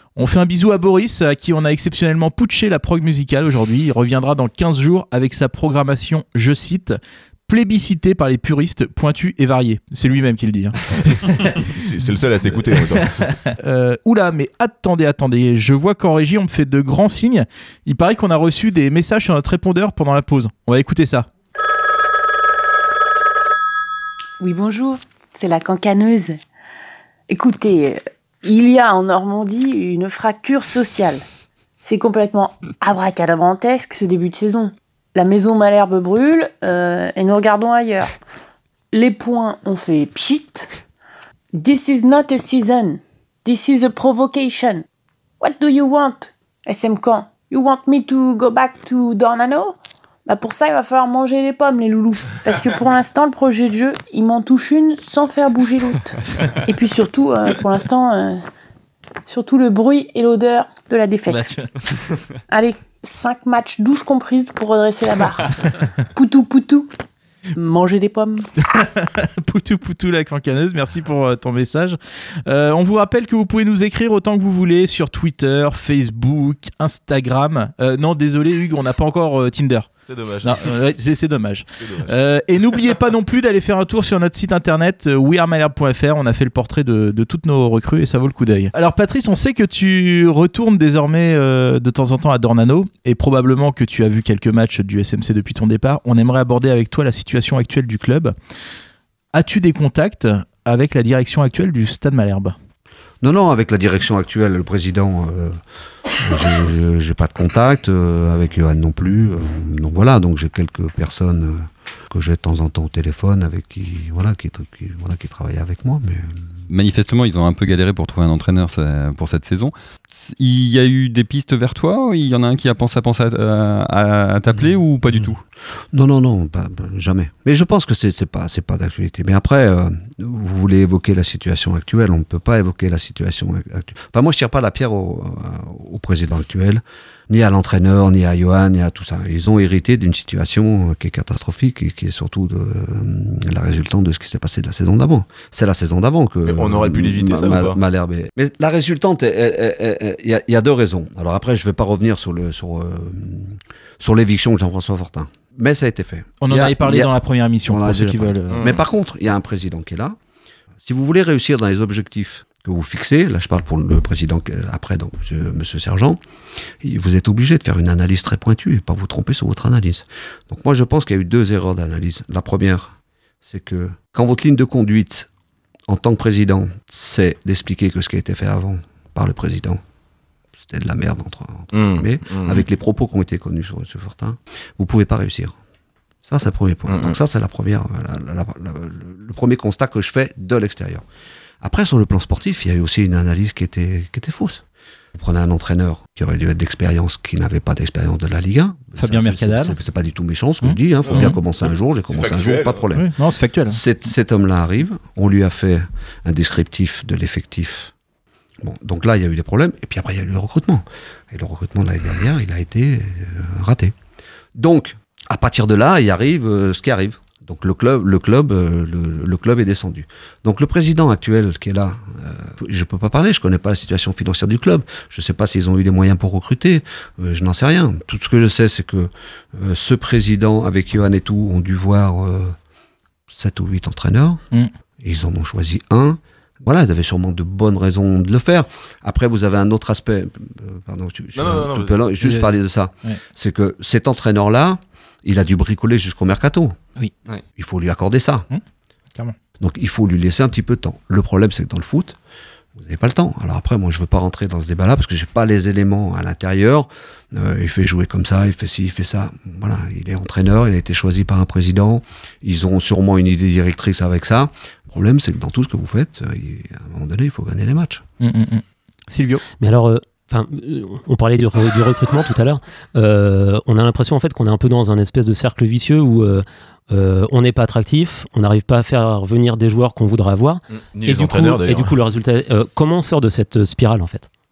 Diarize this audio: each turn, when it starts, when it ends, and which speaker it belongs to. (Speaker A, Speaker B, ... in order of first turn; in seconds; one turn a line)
Speaker A: 0.1-11.7
Speaker B: 11.5-13.3
Speaker A: 13.0-21.3
Speaker C: 24.4-26.4
Speaker C: 27.3-31.2
Speaker C: 31.8-38.1
Speaker C: 38.9-40.7
Speaker C: 41.5-44.8
Speaker C: 45.4-58.4
Speaker C: 59.3-61.5
Speaker A: 61.3-61.7
Speaker C: 62.5-65.5
Speaker C: 66.1-66.9
Speaker C: 67.5-68.5
Speaker A: 68.7-79.9
Speaker B: 80.1-80.7
Speaker A: 80.4-98.3
Speaker B: 81.8-82.1
Speaker A: 99.3-102.5
Speaker D: 103.2-105.6
Speaker D: 106.2-116.4
Speaker E: 116.7-125.4
Speaker D: 125.9-157.1
Speaker B: 146.4-147.8
Speaker A: 156.4-158.7
Speaker D: 157.6-160.2
Speaker B: 158.5-158.8
Speaker D: 160.8-166.2
Speaker D: 166.8-175.3
Speaker D: 175.9-179.8
Speaker D: 180.6-185.6
Speaker B: 181.7-182.6
Speaker D: 186.2-191.0
Speaker B: 186.9-187.2
Speaker D: 191.6-203.1
Speaker A: 199.0-199.8
Speaker A: 200.6-201.4
Speaker B: 201.0-201.4
Speaker B: 202.0-202.9
Speaker A: 202.9-203.8
Speaker D: 203.7-207.9
Speaker D: 208.6-213.9
Speaker D: 214.5-232.6
Speaker D: 233.3-234.4
Speaker D: 235.0-246.8
Speaker B: 241.3-241.9
Speaker A: 242.2-242.5
Speaker D: 247.6-248.5
Speaker D: 249.6-252.2
Speaker D: 252.8-268.0
Speaker A: 268.2-269.4
Speaker F: 269.6-284.3
Speaker B: 280.7-282.0